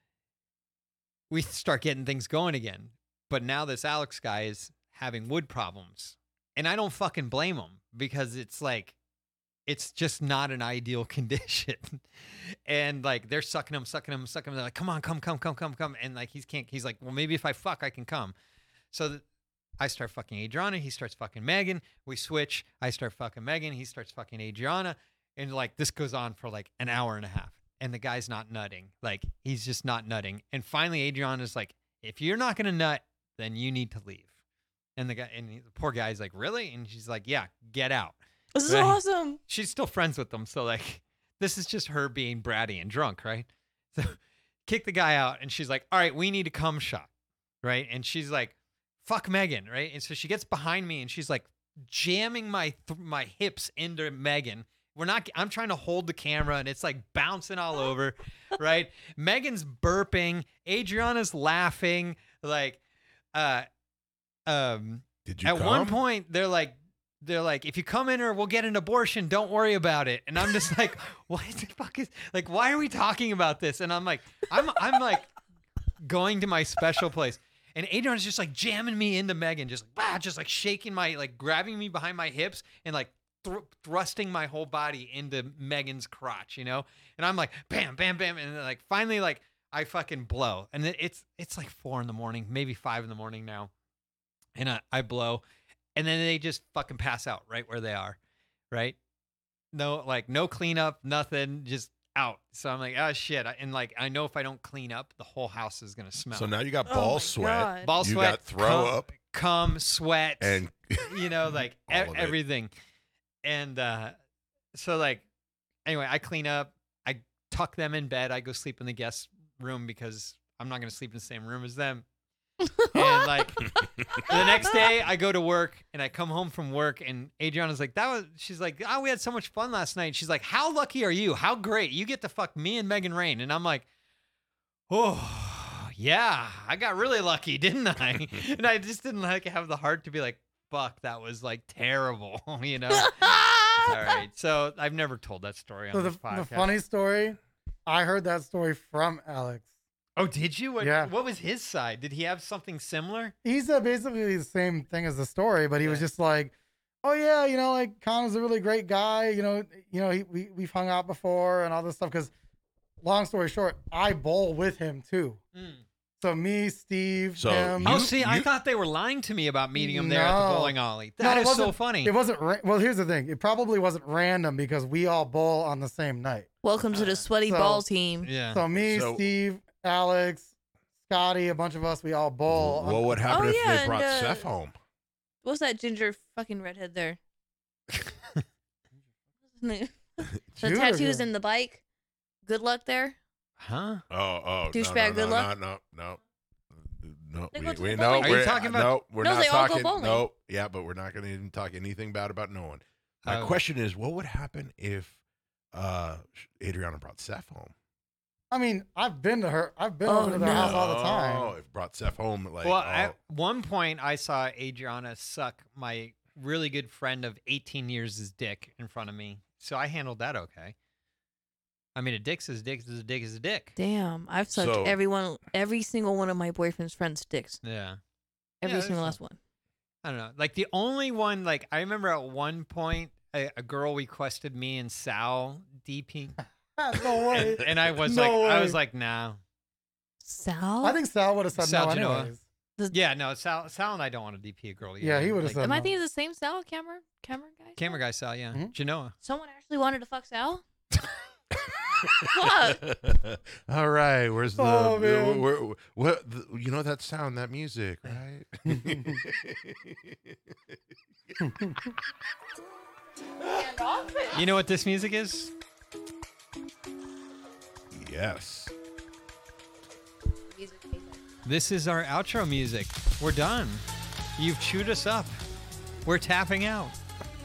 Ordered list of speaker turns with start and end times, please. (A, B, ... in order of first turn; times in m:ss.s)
0:01.3-0:09.0 A
0:09.7-0:18.3 A
0:18.9-0:19.2 A
0:19.8-0:34.3 A
0:35.0-0:47.1 A
0:38.6-0:39.4 B
0:47.6-1:02.8 A
1:03.3-1:03.7 A
1:04.5-1:15.3 A
1:05.3-1:06.0 C
1:16.0-1:33.7 A
1:34.6-1:35.4 A
1:36.0-1:38.2 A
1:38.7-1:39.0 A
1:39.7-1:46.5 A
1:46.3-1:49.1 C
1:46.9-1:47.9 B
1:47.8-1:52.7 A
1:50.4-1:52.4 C
1:53.4-1:54.1 A
1:54.7-1:55.2 A
1:55.9-2:02.0 A
2:02.6-2:03.5 B
2:02.9-2:13.9 A
2:03.8-2:04.2 C
2:04.3-2:04.7 B
2:14.9-2:26.7 A
2:23.0-2:24.0 B
2:25.9-2:29.7 D
2:30.2-2:33.3 A
2:30.8-2:31.1 D
2:33.4-2:42.3 D
2:35.8-2:36.1 A
2:43.0-2:45.4 D
2:45.6-2:45.8 A
2:46.2-2:48.0 D
2:47.4-2:48.5 C
2:47.8-2:52.1 A
2:49.8-2:56.5 D
2:56.6-2:58.3 B
2:56.9-2:57.2 A
2:57.5-2:57.8 D
2:58.2-2:58.6 A
2:58.5-3:00.5 D
2:58.8-2:59.3 C
3:01.1-3:03.2 D
3:02.5-3:04.8 C
3:03.3-3:04.5 B
3:05.4-3:07.2 B
3:09.6-3:11.8 B
3:10.3-3:10.6 C
3:10.6-3:11.3 D
3:12.5-3:13.2 B
3:13.6-3:14.0 A
3:14.1-3:16.2 C
3:14.7-3:15.5 B
3:16.7-3:25.2 C
3:17.5-3:18.6 B
3:18.2-3:19.0 A
3:19.2-3:20.2 B
3:23.2-3:23.6 A
3:25.7-3:27.7 C
3:28.5-3:31.5 D
3:30.0-3:30.8 B
3:30.4-3:33.2 C
3:32.6-3:40.8 A
3:42.0-3:43.8 A
3:43.8-3:47.6 B
3:44.5-3:45.0 C
3:47.6-3:48.0 A
3:48.6-3:49.4 B
3:48.6-3:49.2 A
3:50.0-3:56.4 A
3:56.8-3:58.8 D
3:57.1-3:59.4 A
4:00.2-4:01.0 B
4:00.8-4:02.4 D
4:01.6-4:02.3 A
4:02.9-4:05.6 A
4:05.0-4:05.9 D
4:05.6-4:08.0 B
4:07.8-4:09.2 A
4:09.2-4:10.6 B
4:12.0-4:20.8 C
4:12.2-4:12.8 B
4:14.6-4:15.4 D
4:18.7-4:19.2 D
4:21.3-4:21.9 C
4:21.4-4:21.8 D
4:23.5-4:24.4 B
4:24.3-4:25.5 A
4:27.9-4:28.7 C
4:30.5-4:31.3 B
4:31.4-4:33.8 A
4:34.4-4:35.4 A
4:36.0-4:37.0 A